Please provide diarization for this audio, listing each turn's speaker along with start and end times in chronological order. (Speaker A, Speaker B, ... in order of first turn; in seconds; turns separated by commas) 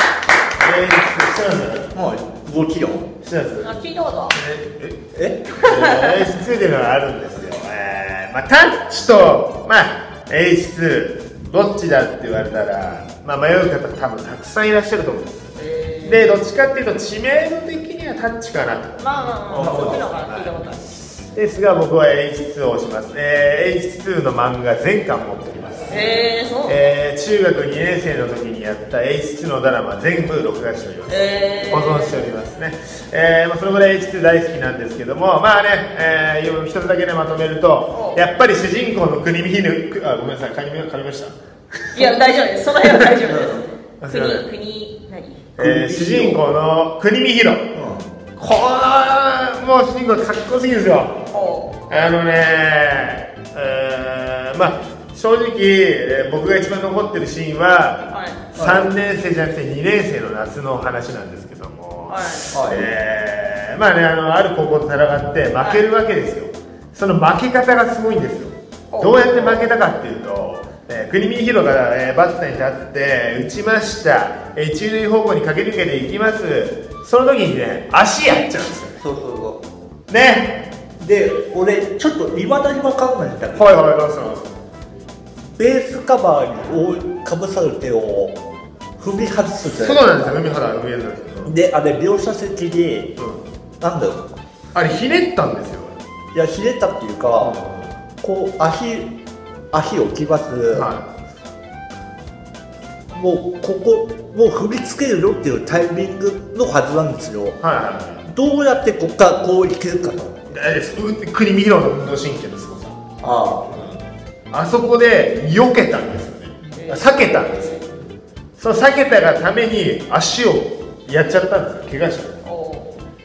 Speaker A: 0.6-1.9, Speaker B: 1.9-3.1, Speaker A: 3.2-15.4, Speaker C: 3.6-4.4, Speaker B: 5.1-5.4, Speaker C: 5.6-6.3, Speaker C: 15.6-16.3, Speaker A: 16.0-20.5, Speaker C: 19.0-20.9, Speaker B: 19.5-20.1, Speaker A: 21.3-42.2, Speaker C: 25.9-26.8, Speaker C: 31.1-32.2, Speaker C: 37.9-38.2, Speaker C: 41.9-45.4, Speaker B: 43.2-43.6, Speaker A: 44.0-44.5, Speaker B: 45.6-46.4, Speaker A: 45.6-47.7, Speaker B: 47.7-48.1, Speaker A: 48.4-51.2, Speaker C: 51.3-51.8, Speaker A: 51.9-79.0, Speaker C: 58.1-58.4, Speaker B: 58.5-58.9, Speaker C: 62.1-62.5, Speaker B: 62.5-62.9, Speaker C: 68.9-69.4, Speaker B: 69.4-69.7, Speaker B: 79.0-79.6, Speaker A: 80.1-80.7, Speaker B: 81.0-83.8, Speaker A: 83.5-84.5, Speaker B: 85.6-88.4, Speaker B: 89.0-90.4, Speaker A: 89.6-91.5, Speaker B: 91.4-93.2, Speaker A: 93.2-93.5, Speaker B: 93.8-94.4, Speaker A: 94.7-96.0, Speaker B: 96.3-97.6, Speaker A: 97.4-98.0, Speaker B: 98.2-99.1, Speaker B: 99.7-100.9, Speaker A: 100.7-101.1, Speaker B: 103.1-107.6, Speaker A: 107.6-108.2, Speaker B: 108.2-110.5, Speaker A: 110.5-113.0, Speaker B: 113.2-113.7, Speaker A: 113.7-117.8, Speaker C: 116.8-117.8, Speaker A: 118.6-122.4, Speaker C: 122.4-123.0